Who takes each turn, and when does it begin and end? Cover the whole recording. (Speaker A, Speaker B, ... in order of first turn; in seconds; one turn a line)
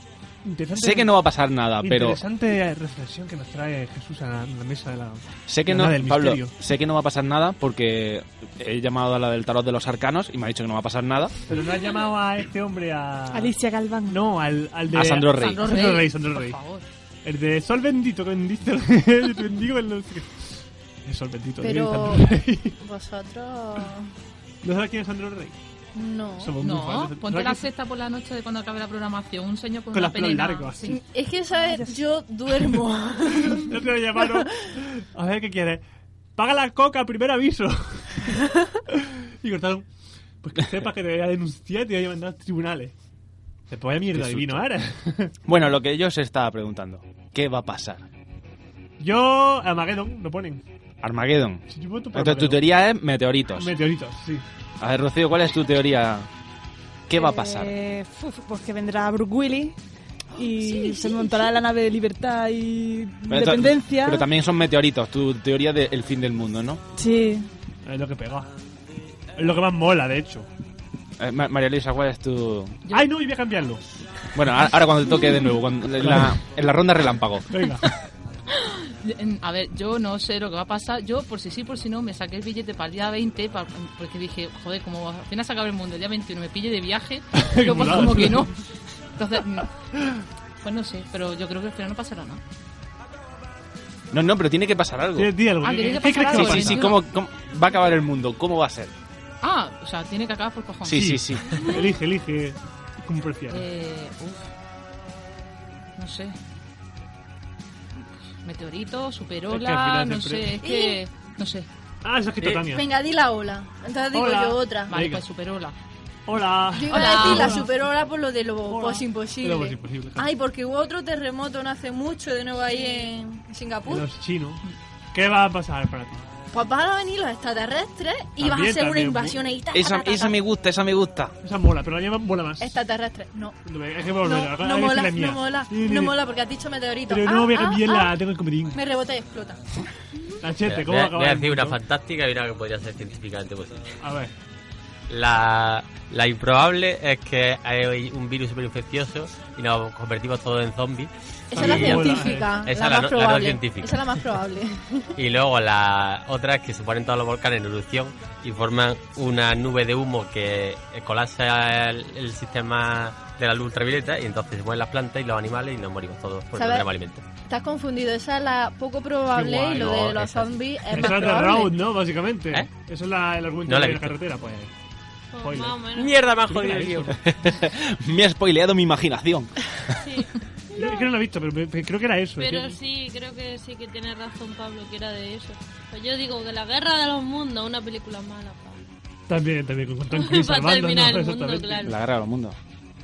Speaker A: 0.4-1.2
Speaker B: 0.7-2.2
Speaker A: 1.8-6.5
Speaker B: 5.5-11.3
Speaker A: 11.5-13.5
Speaker C: 13.3-14.3
Speaker A: 14.1-16.6
Speaker B: 14.9-15.7
Speaker D: 15.3-16.8
Speaker A: 17.2-22.8
Speaker E: 21.6-24.1
Speaker A: 24.6-25.6
Speaker E: 25.9-26.6
Speaker A: 26.4-27.6
Speaker D: 26.6-31.0
Speaker A: 29.9-31.0
Speaker E: 30.9-33.7
Speaker A: 33.5-35.8
Speaker A: 36.4-39.9
Speaker A: 40.4-42.9
Speaker A: 43.7-45.3
Speaker B: 44.1-44.6
Speaker B: 45.5-48.0
Speaker A: 49.0-50.6
Speaker B: 51.0-53.7
Speaker A: 51.7-52.6
Speaker A: 53.5-54.4
Speaker B: 54.8-56.3
Speaker B: 57.1-57.7
Speaker C: 57.1-59.8
Speaker C: 60.3-64.3
Speaker E: 60.8-61.1
Speaker B: 63.3-66.8
Speaker C: 66.9-67.5
Speaker A: 67.8-68.5
Speaker A: 69.4-70.5
Speaker B: 71.2-72.8
Speaker A: 72.9-73.8
Speaker B: 74.3-77.5
Speaker A: 76.0-76.4
Speaker A: 77.5-77.9
Speaker D: 78.8-88.5
Speaker A: 87.3-88.5
Speaker D: 89.1-89.7
Speaker A: 90.0-90.2
Speaker D: 90.6-92.4
Speaker B: 94.1-95.3
Speaker A: 95.2-96.8
Speaker D: 95.6-97.0
Speaker B: 96.2-98.9
Speaker D: 99.4-101.0
Speaker B: 100.9-101.6
Speaker A: 100.9-103.7
Speaker D: 103.5-104.5
Speaker D: 106.0-106.3
Speaker D: 108.2-111.7
Speaker A: 109.5-110.6
Speaker E: 110.6-111.0
Speaker A: 112.0-112.9
Speaker E: 112.4-114.9
Speaker A: 114.1-115.2
Speaker D: 114.9-115.7
Speaker A: 116.3-117.7
Speaker E: 116.7-124.1
Speaker D: 116.9-117.7
Speaker A: 118.6-120.3
Speaker A: 123.9-124.6
Speaker A: 125.1-126.2
Speaker E: 126.5-130.4
Speaker A: 128.4-129.4
Speaker B: 129.7-131.3
Speaker A: 131.4-132.8
Speaker E: 132.6-133.6
Speaker A: 133.6-136.2
Speaker E: 134.2-138.2
Speaker A: 137.1-138.8
Speaker E: 138.7-139.8
Speaker A: 140.4-141.8
Speaker F: 140.6-143.9
Speaker A: 144.0-144.3
Speaker F: 145.1-154.1
Speaker E: 151.5-155.1
Speaker A: 151.5-152.6
Speaker F: 155.2-167.2
Speaker E: 166.6-166.8
Speaker E: 167.5-171.8
Speaker A: 169.3-170.1
Speaker F: 169.7-171.1
Speaker A: 170.9-174.7
Speaker F: 173.7-174.1
Speaker G: 175.3-176.2
Speaker A: 175.4-175.8
Speaker F: 176.0-177.1
Speaker A: 176.5-177.2
Speaker B: 176.5-179.8
Speaker G: 179.9-181.0
Speaker A: 180.7-182.8
Speaker G: 182.4-188.8
Speaker A: 189.3-191.8
Speaker G: 190.1-192.0
Speaker B: 191.8-192.6